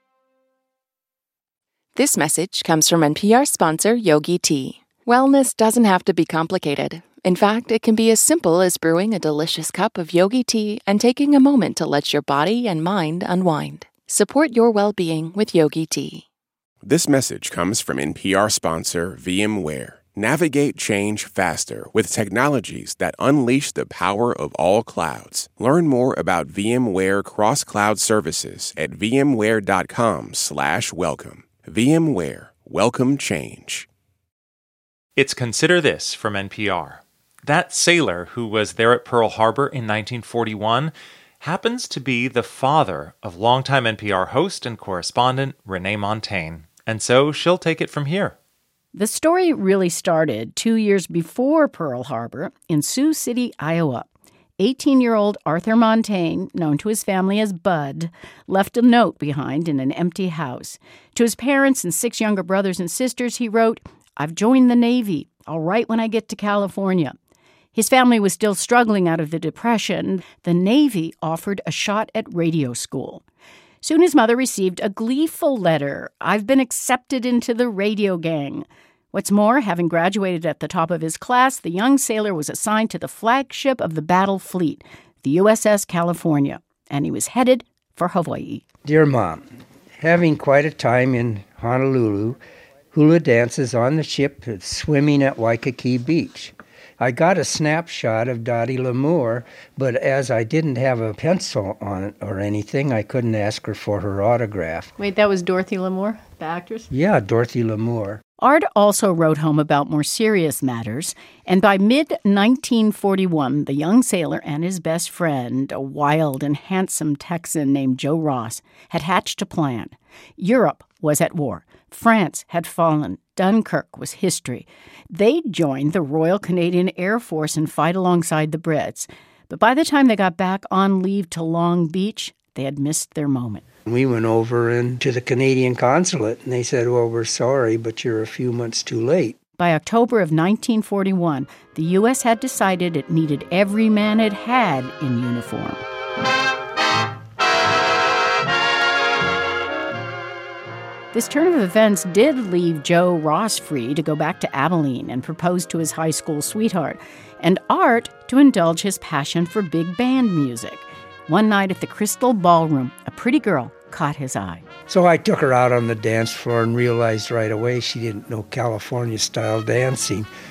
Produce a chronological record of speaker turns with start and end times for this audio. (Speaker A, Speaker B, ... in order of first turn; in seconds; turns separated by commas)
Speaker A: 1.9-16.2, Speaker B: 16.8-33.9, Speaker C: 35.2-48.4, Speaker D: 48.9-67.1, Speaker D: 67.7-73.2, Speaker D: 73.8-88.6, Speaker E: 88.8-89.5, Speaker E: 90.0-92.4, Speaker E: 92.9-104.9, Speaker D: 105.0-106.9, Speaker E: 106.9-108.2, Speaker D: 108.4-133.6, Speaker E: 133.9-139.3, Speaker D: 139.6-145.8, Speaker D: 151.1-164.6, Speaker E: 164.9-170.3